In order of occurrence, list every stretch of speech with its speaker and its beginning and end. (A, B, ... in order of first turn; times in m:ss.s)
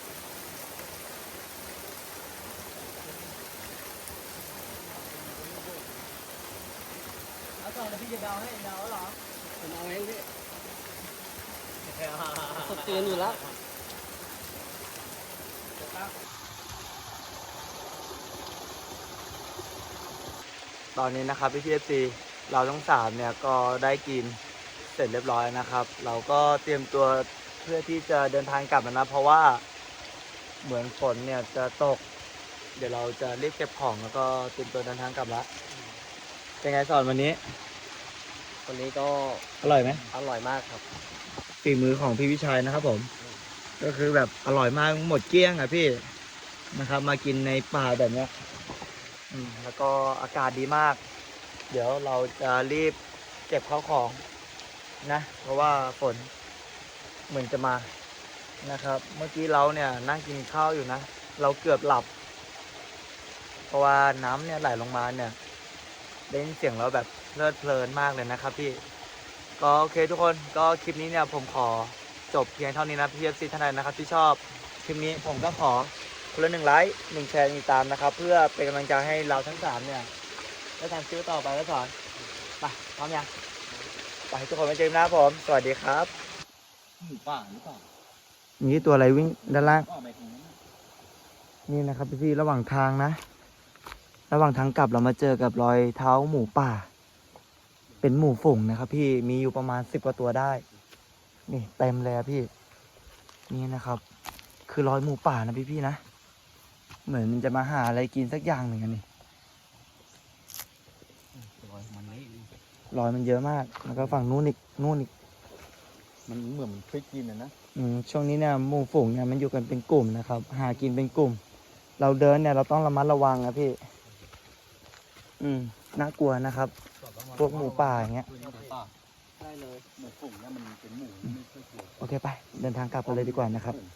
0:05.0-0:05.9 A
0:09.6-0:10.3 A
0:11.8-0:12.5 B
0:12.5-0:13.4 A
0:20.9-0:29.6 B
0:30.6-0:32.0 B
0:32.8-0:35.5 B
0:35.7-0:36.0 A
0:36.6-0:37.4 B
0:38.6-0:40.8 A
0:39.6-0:40.1 B
0:41.6-0:43.1 B
0:43.8-0:46.1 B
0:46.7-0:48.3 B
0:49.3-0:51.0 B
0:51.7-0:54.2 B
0:55.0-0:56.3 B
0:57.3-0:57.9 B
0:58.6-1:02.1 B
1:03.7-1:05.4 B
1:06.3-1:08.8 B
1:09.6-1:20.1 B
1:20.8-1:21.9 B
1:22.6-1:23.3 B
1:24.3-1:26.1 B
1:27.0-1:27.8 C
1:28.6-1:29.9 B
1:29.8-1:30.5 C
1:31.7-1:33.2 B
1:34.3-1:36.9 B
1:38.0-1:40.6 B
1:41.5-1:42.5 B
1:43.5-1:44.0 B
1:44.7-1:46.0 B
1:47.0-1:49.0 B
1:51.3-1:52.5 C
1:52.9-1:55.1 B
1:56.3-1:57.5 C
1:57.7-2:01.4 B
2:02.0-2:03.8 B
2:05.4-2:06.7 B
2:07.0-2:08.9 C
2:07.3-2:08.3 B
2:08.4-2:08.7 A
2:09.4-2:09.9 A
2:10.4-2:11.2 C
2:12.0-2:13.8 B